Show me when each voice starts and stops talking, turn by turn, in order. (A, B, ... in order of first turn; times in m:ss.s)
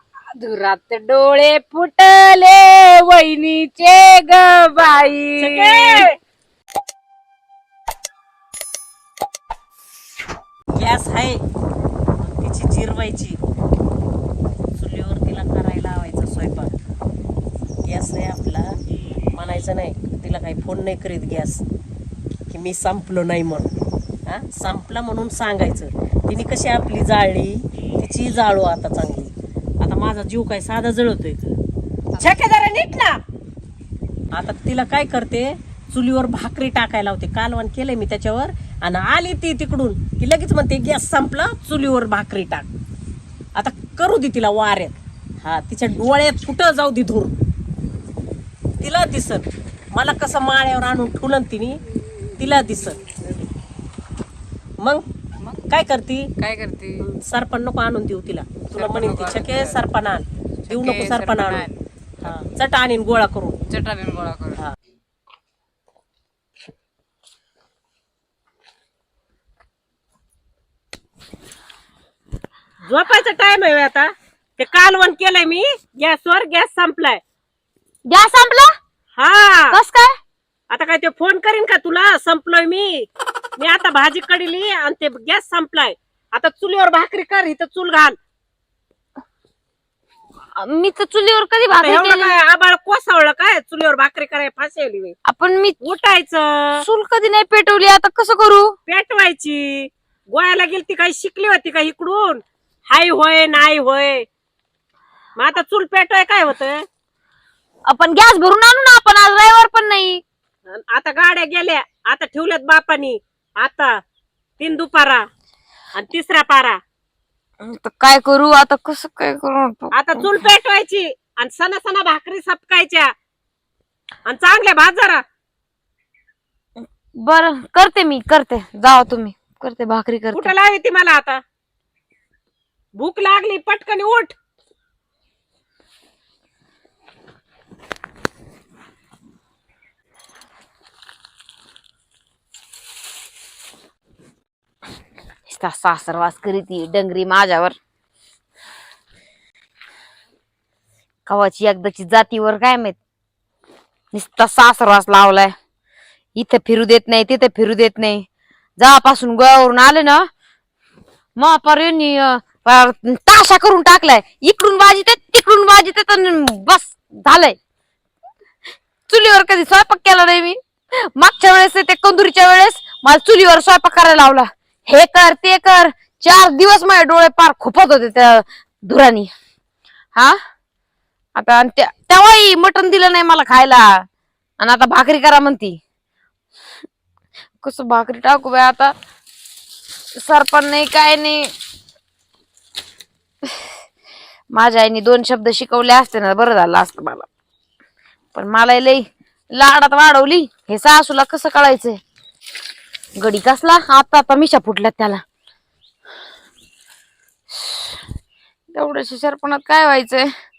0:00.4-0:06.1 A
0:05.4-0:06.1 B
0:10.8-0:11.4 B
0:12.2-0:13.4 B
0:14.8-0:16.7 B
0:17.8-0:18.8 B
0:19.3-0:21.6 B
0:22.5-0:23.7 B
0:24.3-0:31.5 B
0:32.2-0:33.2 B
0:34.3-0:42.7 B
0:43.5-0:47.3 B
0:48.8-0:51.8 B
0:52.4-0:53.0 B
0:55.7-0:56.3 B
0:56.4-0:57.0 A
0:57.0-1:01.7 B
0:58.8-0:59.8 A
1:00.6-1:01.8 A
1:02.2-1:03.6 B
1:03.7-1:04.6 A
1:12.8-1:17.2 B
1:18.1-1:18.8 C
1:19.2-1:19.8 B
1:19.7-1:20.2 C
1:20.7-1:28.2 B
1:30.6-1:32.3 C
1:31.7-1:35.2 B
1:35.3-1:35.8 C
1:35.8-1:36.8 B
1:36.8-1:38.7 C
1:38.9-1:44.2 B
1:45.4-1:46.8 B
1:47.9-1:50.2 C
1:50.7-1:53.9 B
1:54.6-1:55.3 B
1:56.0-1:56.8 B
1:57.6-2:00.3 C
1:59.9-2:03.1 B
2:04.3-2:05.2 B
2:07.2-2:10.5 C
2:10.3-2:11.4 B
2:13.0-2:14.3 B
2:25.5-2:27.8 C
2:31.2-2:33.0 C
2:34.1-2:35.6 C
2:36.4-2:38.2 C
2:38.8-2:40.3 C
2:41.4-2:47.6 C
2:49.1-2:50.6 C
2:51.2-2:59.3 C
3:01.4-3:04.0 C
3:04.6-3:05.8 C
3:07.6-3:08.9 C
3:10.2-3:11.5 C
3:14.5-3:17.3 C
3:18.3-3:22.0 C
3:23.2-3:25.2 C
3:27.5-3:27.9 C
3:28.7-3:30.3 C